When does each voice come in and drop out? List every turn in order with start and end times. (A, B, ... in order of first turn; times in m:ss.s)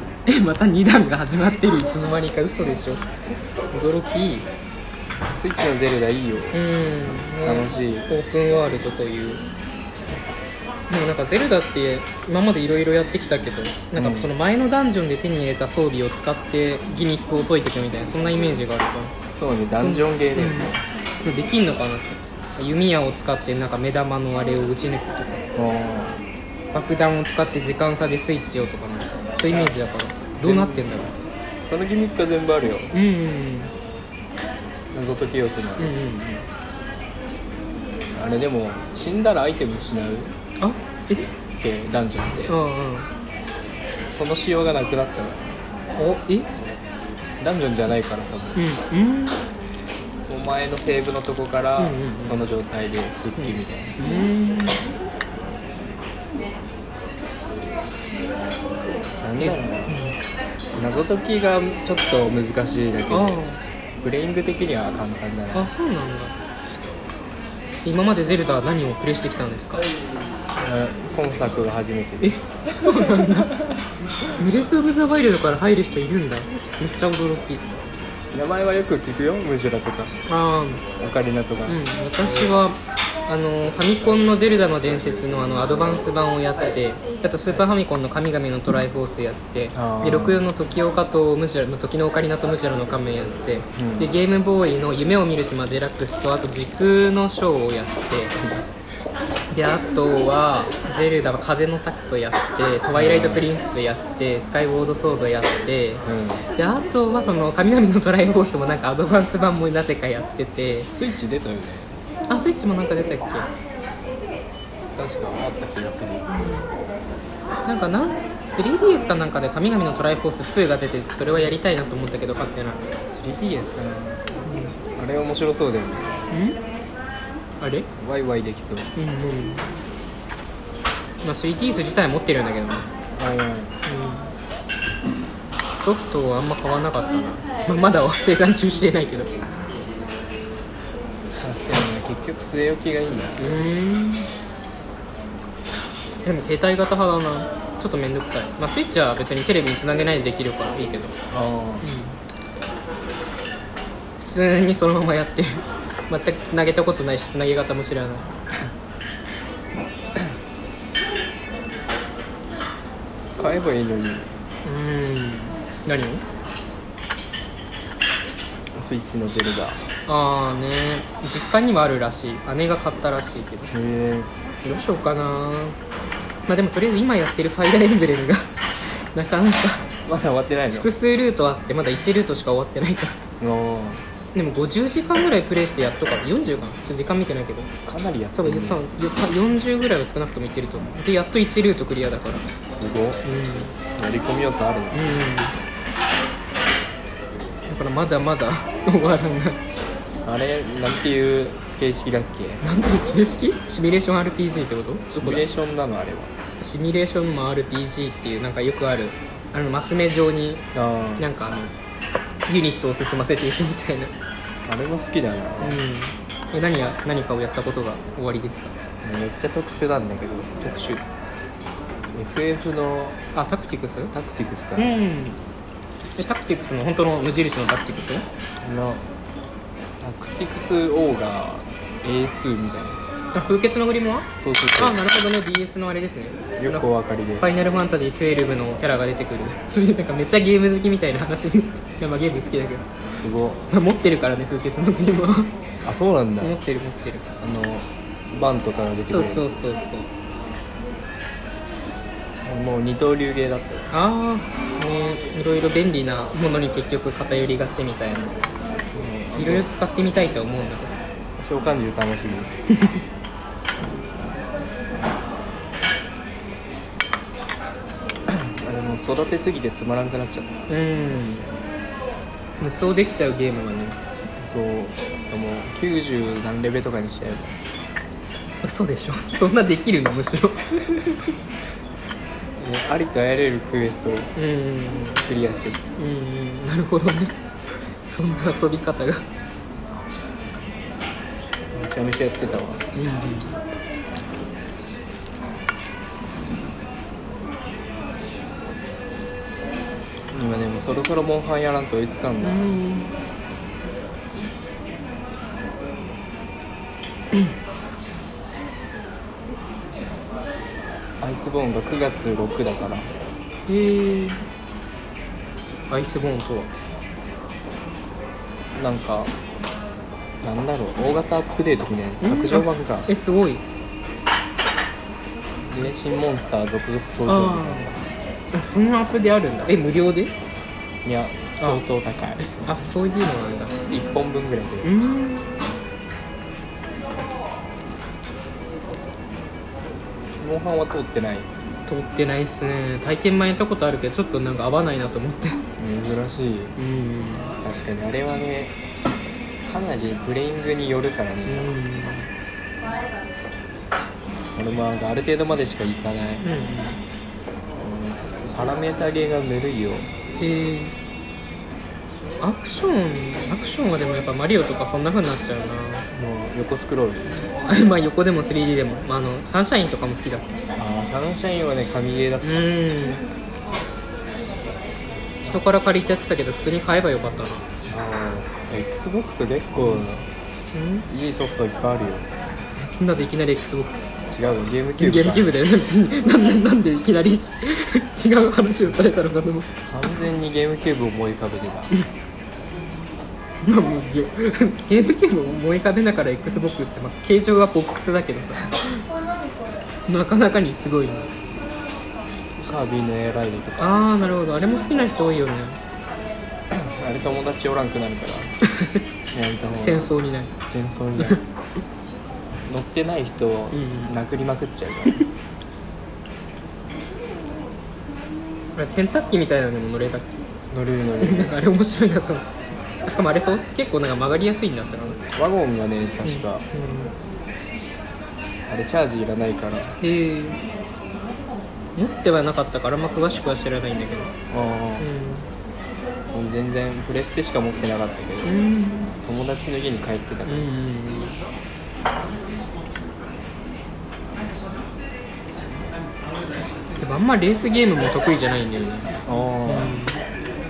0:00.2-0:03.0 A
0:03.7-0:04.5 A
0:05.3-0:06.6 B
0:06.5-0:09.4 A
0:07.4-0:08.1 B
0:10.9-0:19.1 A
0:14.0-0:14.3 B
0:19.3-0:20.8 B
0:19.7-0:25.4 A
0:25.5-0:26.2 B
0:26.7-0:31.3 A
0:29.5-0:29.8 B
0:30.4-0:30.9 B
0:31.7-0:32.9 B
0:32.9-0:33.7 A
0:34.9-0:36.1 B
0:35.8-0:36.4 A
0:38.1-0:40.3 B
0:40.6-0:41.3 A
0:41.6-0:42.6 B
0:42.5-0:43.1 A
0:44.1-0:45.6 B
0:46.0-0:46.5 A
0:47.4-0:48.6 B
0:48.5-0:49.4 A
0:50.3-0:54.0 B
0:51.8-0:52.4 A
0:53.4-0:54.8 A
0:59.2-1:00.0 B
0:59.4-1:00.2 A
1:00.7-1:03.4 B
1:03.1-1:03.6 A
1:04.0-1:05.7 B
1:05.5-1:06.3 A
1:07.8-1:09.9 A
1:10.6-1:13.7 B
1:12.2-1:13.6 A
1:14.4-1:17.9 A
1:18.3-1:20.1 B
1:20.3-1:20.8 A
1:21.0-1:21.8 B
1:21.7-1:38.4 A
1:29.7-1:30.5 B
1:33.8-1:34.1 B
1:39.5-1:46.0 A
1:42.9-1:43.5 B
1:46.0-1:46.4 B
1:46.6-1:50.9 A
1:50.9-1:51.9 B
1:52.3-1:53.5 A
1:54.9-1:56.2 B
1:56.3-1:56.7 A
1:57.6-2:02.8 A
2:03.1-2:04.2 B
2:04.4-2:04.8 A
2:05.0-2:06.2 B
2:06.3-2:06.6 A
2:07.6-2:07.9 A
2:08.0-2:08.9 B
2:09.0-2:09.7 A
2:11.2-2:12.9 A
2:13.1-2:13.7 B
2:13.8-2:14.3 A
2:15.8-2:19.4 A
2:21.4-2:23.7 B
2:23.4-2:24.3 A
2:26.2-2:31.2 A
2:31.3-2:31.9 B
2:31.8-2:32.2 A
2:34.2-2:38.3 A
2:43.4-2:44.3 B
2:44.6-2:46.2 A
2:48.7-2:49.8 B
2:50.1-2:53.7 A
2:53.7-2:54.3 B
2:54.6-2:55.8 A
2:56.5-2:59.9 A
3:00.0-3:00.9 B
3:00.7-3:03.1 A
3:03.4-3:04.0 B
3:04.3-3:07.7 A
3:07.8-3:08.8 B
3:08.4-3:12.4 A
3:12.6-3:13.3 B
3:13.2-3:13.7 A
3:13.9-3:15.3 B
3:14.9-3:15.5 A
3:17.7-3:19.6 A
3:20.2-3:22.6 B
3:22.6-3:25.4 A
3:25.1-3:26.3 B
3:26.6-3:30.6 A
3:30.7-3:31.3 B
3:31.2-3:31.7 A
3:32.5-3:34.1 A
3:34.6-3:35.8 B
3:35.6-3:38.7 A
3:39.0-3:41.0 B
3:42.1-3:43.2 B
3:43.3-3:44.1 A
3:44.1-3:45.0 B
3:44.8-3:45.4 A
3:46.2-3:48.2 A
3:48.6-3:49.1 B
3:50.0-3:53.0 B
3:53.3-3:56.9 A
3:54.4-3:55.0 B
3:56.6-3:57.5 B
3:57.4-4:02.8 A
4:03.1-4:03.7 B
4:03.7-4:05.5 A
4:05.8-4:06.6 B
4:06.4-4:07.3 A
4:07.4-4:09.5 B
4:09.1-4:10.1 A
4:12.4-4:13.9 B
4:13.9-4:18.4 A
4:18.9-4:19.7 B
4:19.4-4:21.0 A
4:21.4-4:22.5 B
4:28.3-4:30.6 B
4:30.7-4:31.5 A
4:32.6-4:34.0 A
4:34.4-4:37.6 B
4:38.6-4:41.0 A
4:42.6-4:44.3 B
4:44.4-4:45.2 A
4:45.2-4:45.8 B
4:46.0-4:47.4 A
4:48.0-4:49.2 A
4:51.7-4:52.8 B
4:52.9-4:53.6 A
5:00.3-5:02.8 B
5:02.4-5:03.2 A
5:11.2-5:13.1 B
5:13.7-5:14.4 A
5:15.9-5:16.7 A
5:18.7-5:19.3 B
5:20.4-5:23.1 B
5:22.2-5:23.6 A
5:25.7-5:28.0 B
5:27.2-5:28.0 A
5:28.5-5:30.3 A
5:31.0-5:32.6 B
5:32.6-5:33.7 A
5:33.9-5:34.9 B
5:34.8-5:35.6 A
5:40.4-5:41.5 B
5:41.9-5:45.6 A
5:45.8-5:46.7 B
5:46.8-5:47.6 A
5:47.6-5:48.7 B
5:49.7-5:51.8 B
5:51.5-5:52.3 A
5:54.5-5:56.4 B
5:56.4-5:57.0 A
5:57.8-6:00.1 B
6:00.4-6:00.9 A
6:02.4-6:06.1 A
6:06.1-6:07.4 B
6:07.6-6:10.6 A
6:10.8-6:12.7 B
6:12.4-6:13.3 A
6:15.4-6:17.7 A
6:17.9-6:20.3 B
6:19.8-6:20.0 A
6:20.7-6:21.1 A
6:21.1-6:22.3 B
6:22.8-6:24.1 A
6:24.3-6:25.6 B
6:25.0-6:29.7 A
6:29.9-6:31.9 B
6:33.6-6:38.9 A
6:40.1-6:41.3 A
6:42.6-6:44.0 B
6:43.8-6:45.8 A
6:46.7-6:48.5 B
6:48.7-6:49.0 A
6:49.3-6:50.1 B
6:49.8-6:50.5 A
6:50.6-6:51.4 B
6:52.7-6:55.2 B
6:53.7-6:54.1 A
6:58.7-7:00.4 A
7:00.7-7:01.6 B
7:01.2-7:05.2 A
7:05.3-7:06.6 B
7:06.2-7:07.1 A
7:08.7-7:10.0 B
7:10.0-7:10.6 A
7:12.0-7:14.3 A
7:14.5-7:15.1 B
7:15.0-7:15.5 A
7:16.3-7:18.5 B
7:18.4-7:19.1 A
7:19.2-7:20.7 B
7:20.4-7:21.3 A
7:27.0-7:29.1 A
7:29.2-7:30.0 B
7:29.6-7:30.2 A